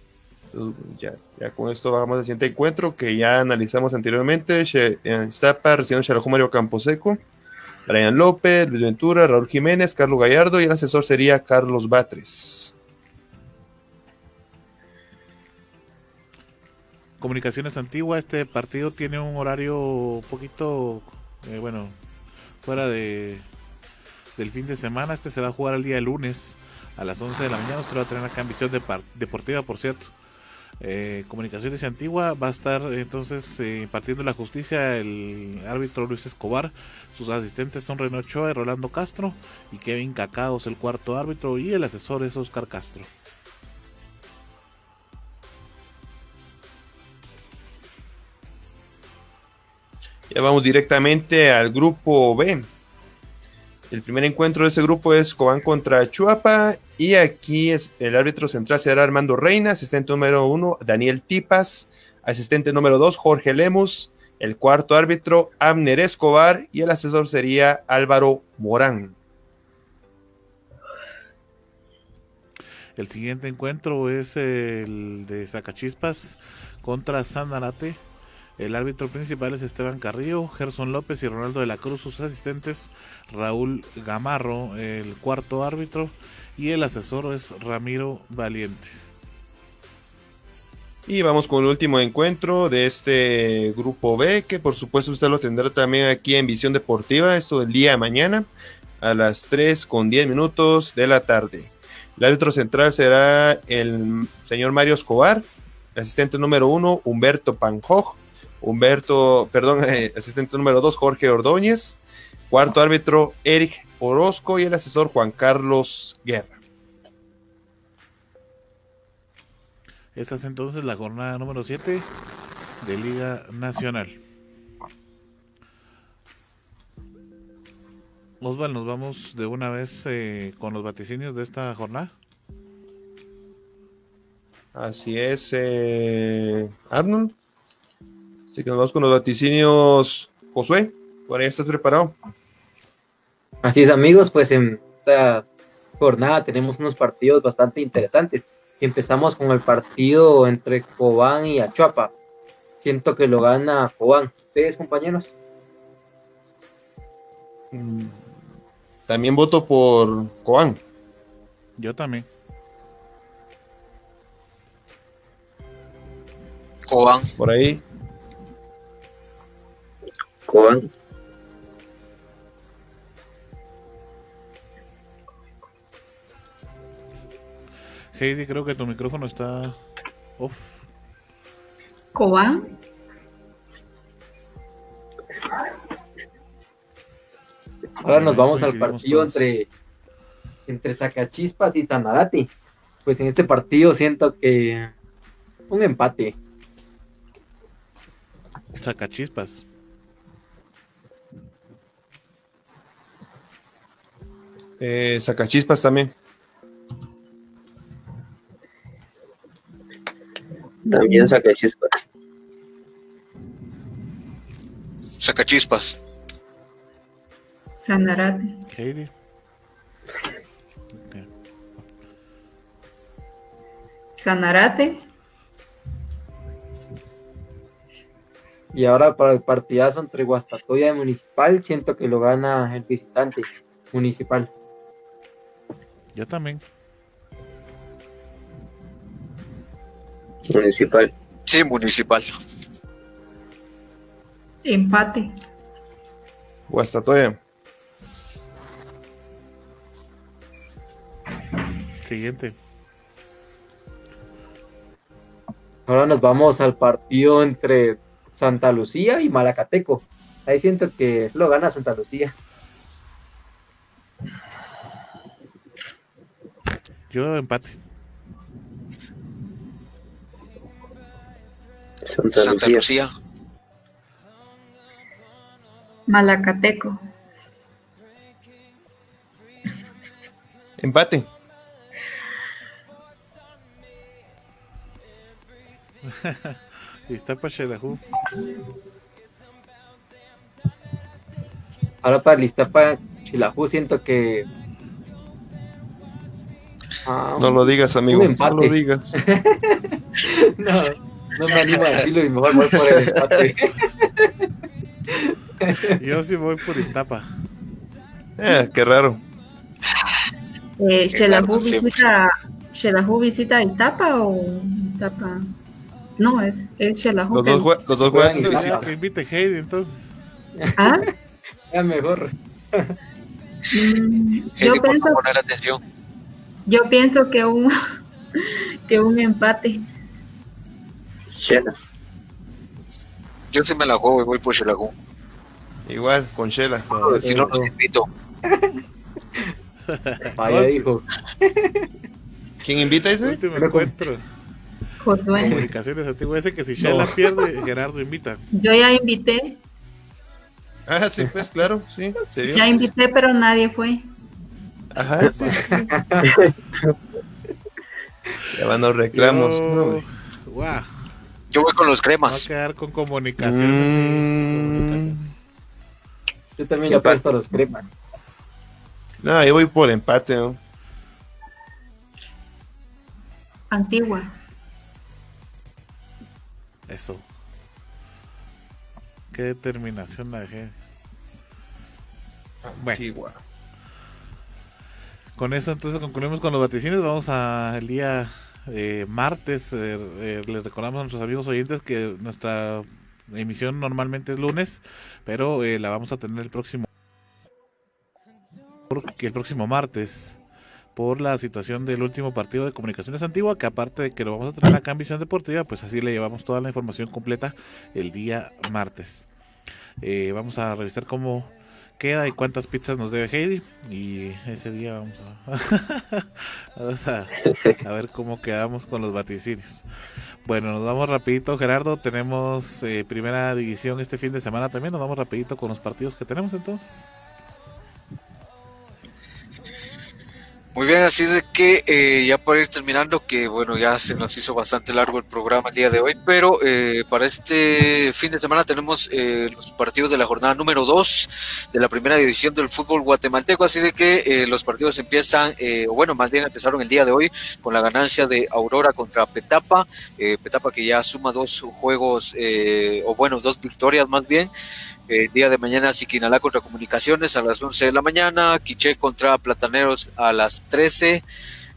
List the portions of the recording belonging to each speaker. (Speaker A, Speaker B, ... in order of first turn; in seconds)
Speaker A: 0.5-7.2, 7.9-12.7, 50.3-52.6, 53.9-69.1, 91.1-98.5, 99.0-116.6, 134.7-137.3, 138.5-142.2, 157.7-158.2, 159.1-160.8, 167.4-167.8, 204.8-206.1, 246.7-247.4, 280.8-281.3, 297.4-299.1, 302.7-303.4, 308.4-309.2, 317.3-318.8, 335.9-337.5, 342.6-343.4, 350.9-352.8, 354.9-355.9, 358.5-360.0, 363.4-365.2, 369.2-370.6, 382.6-383.4
Speaker B: 17.2-21.9, 22.6-23.4, 24.4-30.1, 30.8-43.1, 73.0-78.0, 78.6-88.9, 120.1-122.1, 122.8-124.2, 128.4-132.1, 161.8-162.3, 178.1-179.8, 180.4-180.8, 188.1-189.4, 198.8-199.7, 218.7-219.1, 221.0-221.2, 236.1-236.6, 252.0-252.6, 267.1-267.8, 286.1-288.1, 305.9-307.3, 318.3-320.1, 336.8-337.3, 339.9-340.9, 343.0-344.2, 345.4-348.4, 355.2-355.8, 359.1-360.9, 362.2-365.3, 376.9-377.2, 379.3-380.7, 382.8-383.0, 385.4-396.9, 398.9-400.4, 400.9-409.3, 410.0-419.8, 420.4-427.1
Speaker C: 143.6-145.4, 146.0-152.1, 152.8-155.3, 188.0-189.7, 190.7-192.5, 193.1-194.9, 195.7-196.3, 228.7-234.5, 255.9-262.3, 292.0-294.5, 297.1-304.3, 305.2-306.0, 318.0-318.9, 320.6-321.0, 321.7-322.9, 337.2-337.6, 340.3-341.9, 343.6-343.9, 355.5-356.3, 366.6-367.9
Speaker D: 166.9-167.4, 215.2-216.0, 241.5-242.2, 272.3-273.1, 311.1-312.0, 324.6-325.8, 333.5-334.9, 336.9-338.1, 361.5-362.5, 430.7-454.5, 455.1-461.2
Speaker E: 170.4-170.9, 210.9-212.0, 240.5-241.1, 272.1-272.8, 331.4-331.7
Speaker F: 182.1-182.7, 217.8-218.4, 224.2-225.0, 244.6-245.3, 276.1-277.0, 310.8-315.5, 316.2-317.7, 320.8-321.1, 323.7-325.2, 326.7-327.7, 328.9-329.8, 345.0-345.6, 348.6-349.6, 352.5-354.0, 373.7-374.3